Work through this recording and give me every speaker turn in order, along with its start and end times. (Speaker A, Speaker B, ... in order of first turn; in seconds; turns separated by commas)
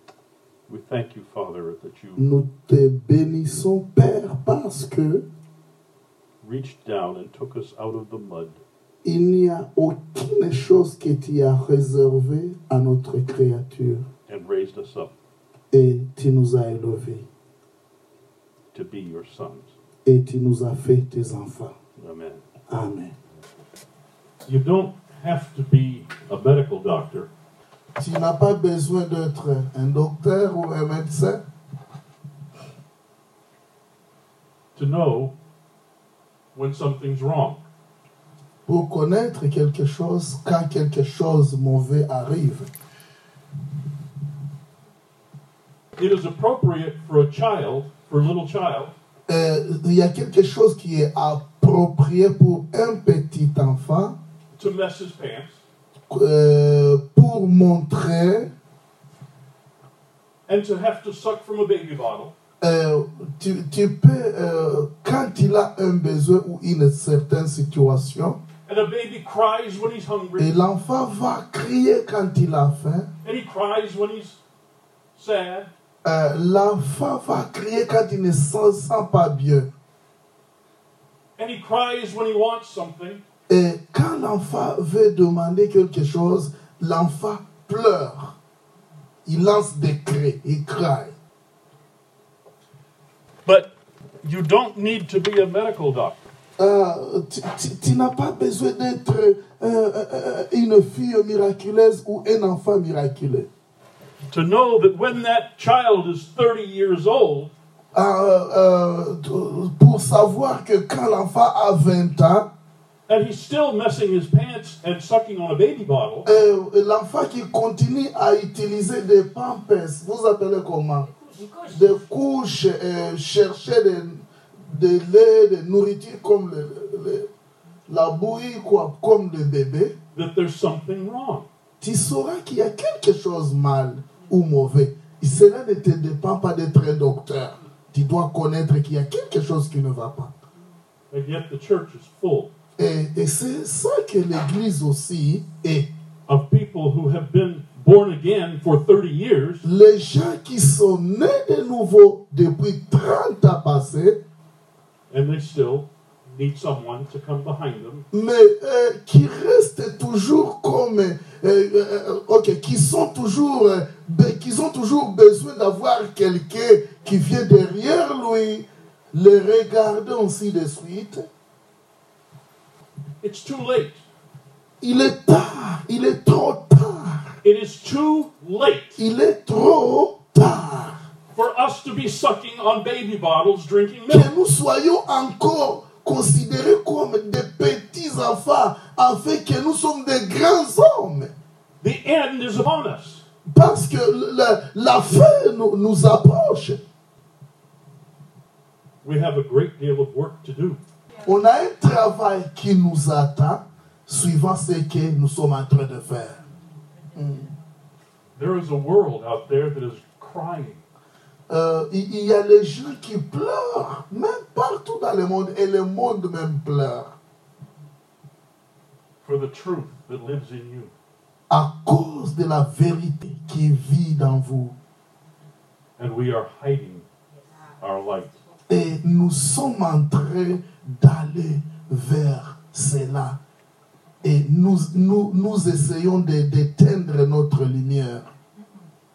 Speaker A: 0.7-2.3, Speaker B: 2.2-5.2, Speaker A: 6.4-8.6, Speaker B: 9.0-14.1, Speaker A: 14.3-15.1, Speaker B: 15.7-17.2, Speaker A: 18.7-19.7, Speaker B: 20.0-21.7, Speaker A: 22.0-22.4, Speaker B: 22.7-23.1, Speaker A: 24.5-27.3, Speaker B: 28.0-31.4, Speaker A: 34.8-35.3, Speaker A: 36.5-37.6, Speaker B: 38.6-42.7, Speaker A: 46.0-48.9, Speaker B: 49.3-54.2, Speaker A: 54.5-55.6, Speaker B: 56.1-58.5, Speaker A: 60.5-62.3, Speaker B: 62.6-68.4, Speaker A: 68.7-70.5, Speaker B: 70.4-73.1, Speaker A: 73.2-74.4, Speaker A: 75.2-75.7, Speaker B: 76.0-79.7, Speaker A: 81.4-83.2, Speaker B: 83.5-88.3, Speaker B: 89.2-91.1, Speaker A: 93.4-93.7, Speaker A: 94.2-96.2, Speaker B: 96.6-103.5, Speaker A: 104.3-107.5, Speaker B: 107.9-112.5, Speaker A: 113.1-116.3, Speaker B: 116.2-121.1, Speaker B: 121.7-127.3, Speaker B: 127.9-129.9, Speaker A: 130.1-131.5, Speaker B: 131.8-140.3, Speaker A: 141.1-142.5, Speaker B: 142.8-145.9, Speaker A: 146.3-149.6, Speaker B: 149.6-154.2, Speaker A: 155.1-158.0, Speaker B: 158.1-171.3, Speaker A: 173.2-174.0, Speaker B: 174.8-177.3, Speaker A: 177.4-179.0, Speaker B: 179.0-181.0, Speaker A: 181.3-184.3, Speaker B: 184.1-191.3, Speaker A: 191.8-193.2, Speaker B: 193.5-196.8, Speaker A: 199.0-200.8, Speaker B: 201.2-206.4, Speaker B: 207.1-207.5, Speaker A: 208.4-210.8, Speaker B: 211.5-217.1, Speaker A: 219.2-220.9, Speaker B: 221.5-224.7, Speaker A: 226.0-227.0, Speaker A: 227.8-228.3, Speaker B: 228.7-233.4, Speaker B: 234.2-238.3